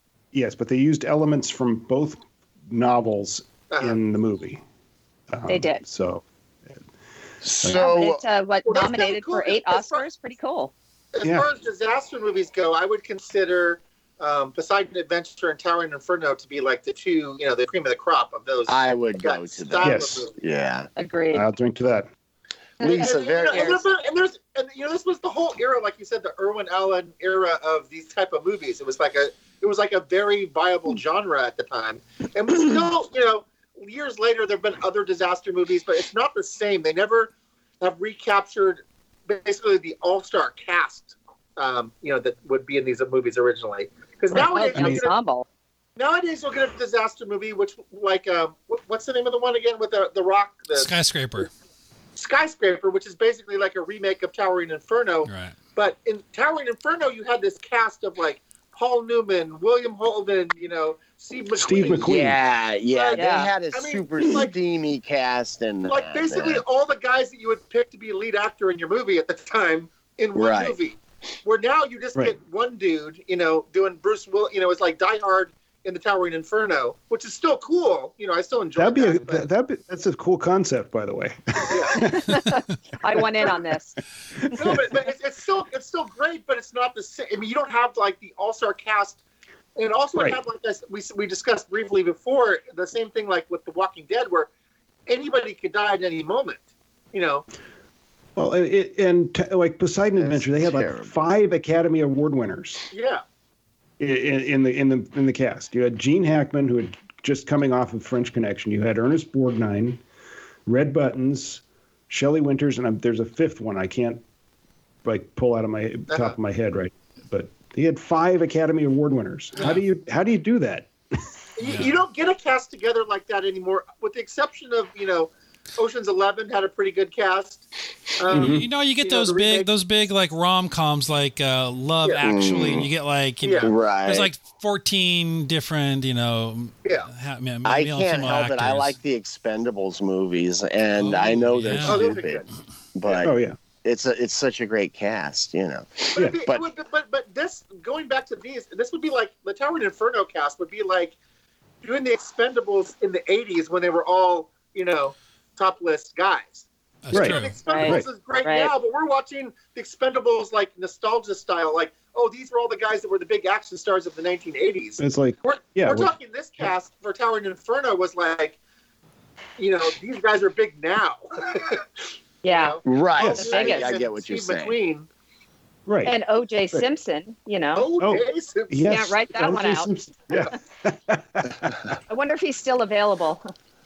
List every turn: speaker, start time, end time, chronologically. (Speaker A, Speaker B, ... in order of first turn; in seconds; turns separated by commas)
Speaker A: 0.3-4.6, Speaker B: 3.7-4.0, Speaker A: 5.3-6.8, Speaker C: 5.5-5.8, Speaker D: 7.4-8.2, Speaker C: 7.6-10.7, Speaker B: 8.7-10.1, Speaker B: 11.1-20.4, Speaker D: 18.7-20.9, Speaker A: 19.8-20.2, Speaker C: 20.9-21.4, Speaker A: 21.3-22.1, Speaker C: 22.8-23.8, Speaker D: 22.8-23.8, Speaker B: 23.0-45.1, Speaker C: 44.3-45.5, Speaker A: 44.7-45.0, Speaker B: 46.0-50.9, Speaker E: 50.7-51.5, Speaker B: 52.1-62.2, Speaker E: 55.2-55.6, Speaker A: 61.5-62.4, Speaker D: 62.0-66.6, Speaker B: 62.9-64.5, Speaker C: 63.1-63.5, Speaker B: 65.9-79.5, Speaker D: 70.3-70.8, Speaker A: 78.8-82.6, Speaker B: 81.7-82.1, Speaker C: 81.9-84.0, Speaker A: 84.5-84.8, Speaker B: 84.5-89.2, Speaker B: 89.8-94.5, Speaker B: 95.1-97.4, Speaker A: 98.3-102.8, Speaker D: 100.2-101.2, Speaker B: 102.9-103.2, Speaker A: 104.0-110.0, Speaker A: 110.7-114.2, Speaker A: 115.0-121.3, Speaker B: 116.1-116.4, Speaker B: 121.6-127.7, Speaker E: 121.6-121.9, Speaker B: 128.2-129.7, Speaker A: 128.3-128.7, Speaker E: 128.3-138.9, Speaker D: 132.2-132.9, Speaker B: 133.4-133.7, Speaker D: 133.6-134.3, Speaker B: 136.8-137.1, Speaker D: 137.6-146.6, Speaker E: 141.0-142.1, Speaker B: 141.8-142.5, Speaker A: 143.1-143.6, Speaker B: 146.1-151.2, Speaker B: 151.8-168.6, Speaker E: 157.0-157.6, Speaker A: 157.1-158.1, Speaker C: 157.6-158.7, Speaker A: 165.0-166.7, Speaker B: 169.6-171.8, Speaker C: 172.4-172.8, Speaker B: 172.4-175.1, Speaker D: 172.8-174.8, Speaker A: 173.2-173.4, Speaker C: 173.3-173.9, Speaker A: 175.8-176.1, Speaker C: 176.0-177.9, Speaker B: 177.7-178.8, Speaker A: 178.0-181.7, Speaker C: 178.9-179.9, Speaker C: 182.1-183.5